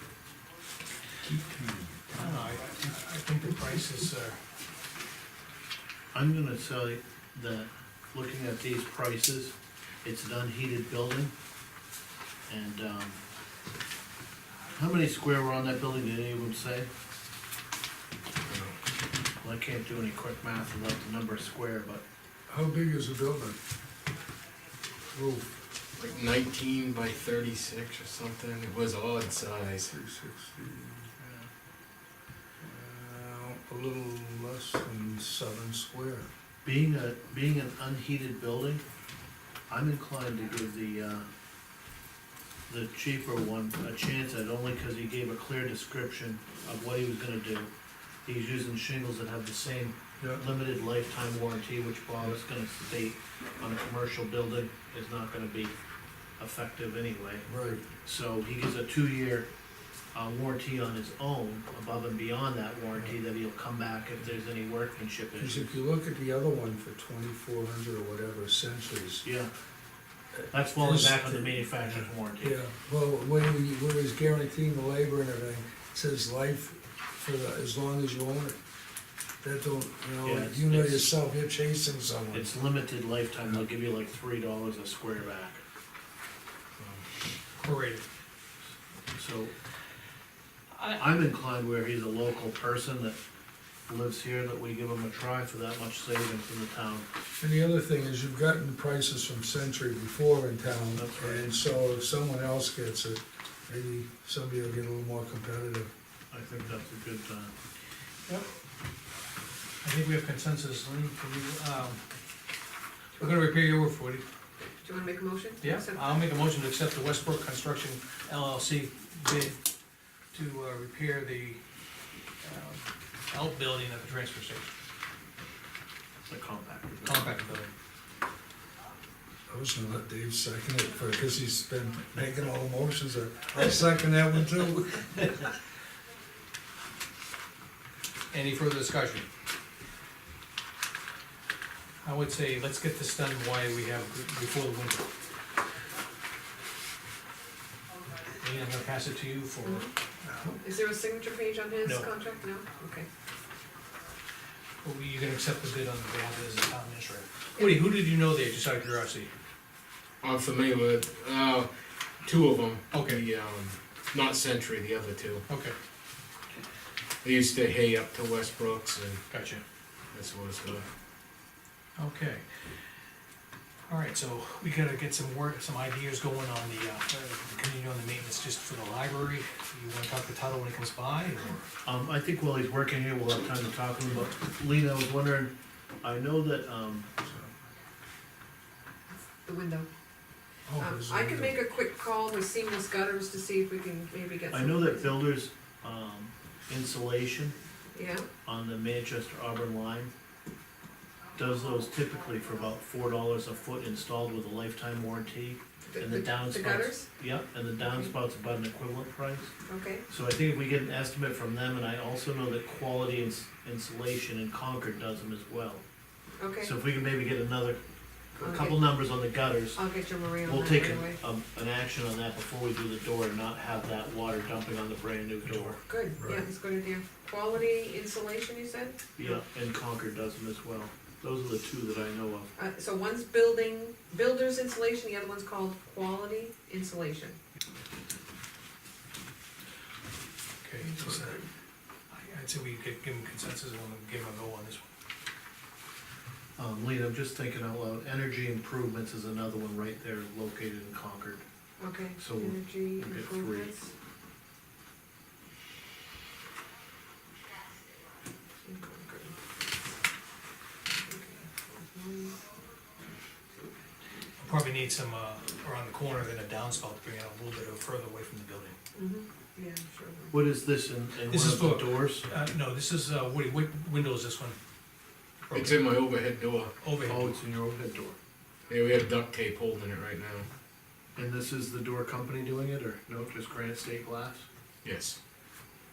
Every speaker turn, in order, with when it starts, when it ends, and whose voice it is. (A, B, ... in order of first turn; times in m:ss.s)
0:01.2-0:02.0 A
0:02.1-0:04.4 B
0:06.1-0:11.3 C
0:12.5-0:13.2 C
0:14.7-0:16.9 C
0:18.4-0:18.8 A
0:19.4-0:22.0 C
0:22.5-0:23.6 D
0:25.1-0:25.5 D
0:26.0-0:29.9 A
0:29.9-0:31.1 D
0:31.2-0:31.5 C
0:32.6-0:36.3 D
0:36.6-0:38.8 C
0:39.7-0:41.3 C
0:42.7-0:47.7 C
0:48.2-0:55.7 C
0:56.4-0:59.5 C
0:57.4-0:57.8 D
1:00.1-1:05.7 C
1:05.4-1:09.2 D
1:09.2-1:09.5 C
1:10.5-1:12.5 C
1:10.8-1:11.7 D
1:12.4-1:18.6 D
1:19.4-1:22.5 D
1:20.2-1:21.1 C
1:22.3-1:25.6 C
1:27.6-1:28.0 B
1:29.1-1:29.5 C
1:30.7-1:31.2 B
1:30.9-1:33.2 C
1:33.9-1:37.0 C
1:37.4-1:45.9 D
1:40.9-1:41.5 C
1:46.3-1:47.5 C
1:49.8-1:52.0 B
1:53.2-1:54.2 B
1:54.8-1:56.2 E
1:55.6-1:59.6 B
2:00.3-2:01.6 B
2:02.4-2:04.7 B
2:06.3-2:07.2 C
2:07.0-2:07.7 B
2:09.5-2:15.1 D
2:18.3-2:19.3 B
2:22.0-2:25.1 B
2:28.4-2:29.9 B
2:29.6-2:29.9 E
2:30.3-2:30.6 D
2:30.5-2:33.1 E
2:34.8-2:39.3 B
2:37.6-2:37.9 E
2:40.2-2:45.4 A
2:42.9-2:43.2 B
2:45.5-2:45.8 B
2:47.2-2:49.2 A
2:49.3-2:49.6 B
2:50.1-2:50.9 A
2:52.0-2:52.4 B
2:53.9-3:01.6 B
3:01.8-3:07.1 C
3:09.1-3:09.9 E
3:10.6-3:11.6 D
3:10.8-3:15.3 E
3:14.5-3:17.6 C
3:17.9-3:18.3 E
3:18.4-3:20.1 C
3:21.3-3:29.5 C
3:25.8-3:27.1 E
3:27.8-3:28.1 E
3:29.6-3:30.1 E
3:30.1-3:35.8 C
3:36.4-3:36.8 E
3:36.6-3:37.8 C
3:38.4-3:45.8 C
3:38.4-3:39.0 E
3:39.7-3:41.2 E
3:45.8-3:49.4 E
3:49.1-3:52.5 C
3:52.6-3:57.4 E
4:00.6-4:01.4 B
4:02.1-4:04.8 B
4:06.6-4:11.4 C
4:11.8-4:13.9 E
4:12.1-4:13.7 C
4:18.6-4:19.4 E
4:21.0-4:22.4 E
4:24.4-4:28.8 B
4:28.9-4:30.3 E
4:30.3-4:32.2 C
4:31.3-4:34.6 B
4:35.4-4:35.8 B
4:35.5-4:36.7 A
4:36.8-4:37.4 B
4:37.0-4:38.2 C
4:38.7-4:40.5 A
4:41.2-4:44.4 C
4:44.8-4:45.2 A